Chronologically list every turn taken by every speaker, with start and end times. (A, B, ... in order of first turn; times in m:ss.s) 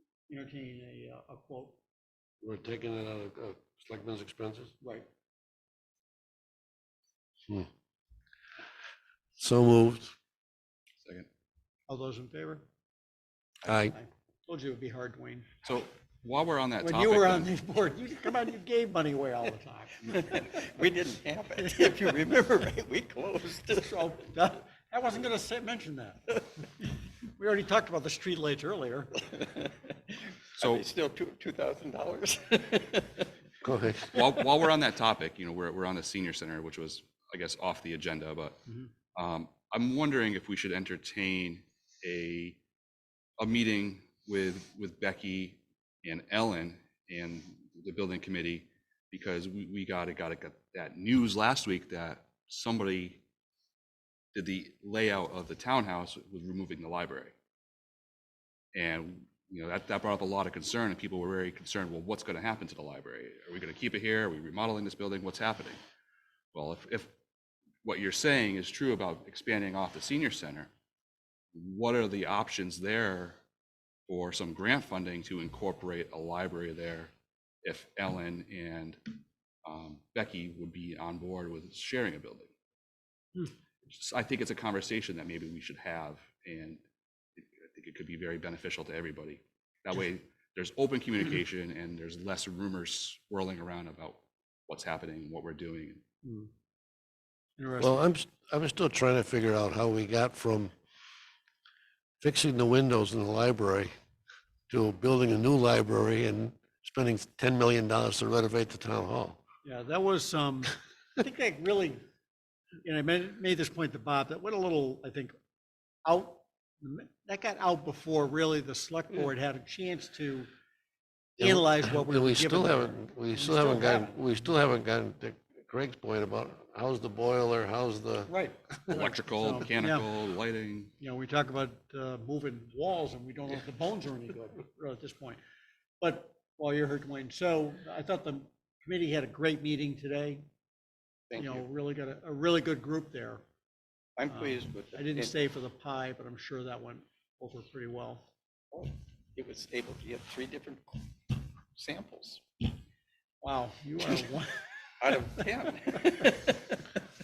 0:00.3-0:01.8 A
0:02.4-0:04.7 B
0:04.8-0:05.1 A
0:09.4-0:10.1 B
0:11.9-0:12.6 A
0:13.6-0:14.0 B
0:13.9-0:15.5 A
0:15.6-0:17.5 C
0:16.8-0:20.7 A
0:20.1-0:24.2 D
0:21.6-0:22.0 A
0:23.7-0:26.7 A
0:27.2-0:29.3 A
0:29.4-0:33.3 D
0:30.6-0:30.8 C
0:33.6-0:34.1 B
0:34.1-0:42.6 C
0:34.2-0:34.5 D
0:43.4-0:53.2 C
0:54.3-0:57.3 C
0:58.7-1:05.8 C
1:06.5-1:07.1 C
1:07.8-1:10.7 C
1:11.5-1:13.4 C
1:14.1-1:17.1 C
1:17.6-1:22.5 C
1:23.8-1:26.8 C
1:27.4-1:36.0 C
1:36.2-1:36.5 A
1:37.6-1:38.0 A
1:37.8-1:40.7 B
1:42.2-1:43.9 B
1:44.7-1:49.4 B
1:49.6-1:52.0 A
1:52.8-1:55.3 A
1:56.0-2:00.5 A
2:01.4-2:08.3 B
2:01.4-2:04.2 A
2:08.3-2:10.1 A
2:08.9-2:10.9 C
2:11.0-2:15.4 A
2:16.0-2:20.4 A
2:21.3-2:21.6 D
2:21.4-2:23.4 A
2:24.2-2:25.3 D
2:24.3-2:28.3 A
2:28.7-2:32.4 D
2:33.4-2:35.1 A
2:35.0-2:36.8 D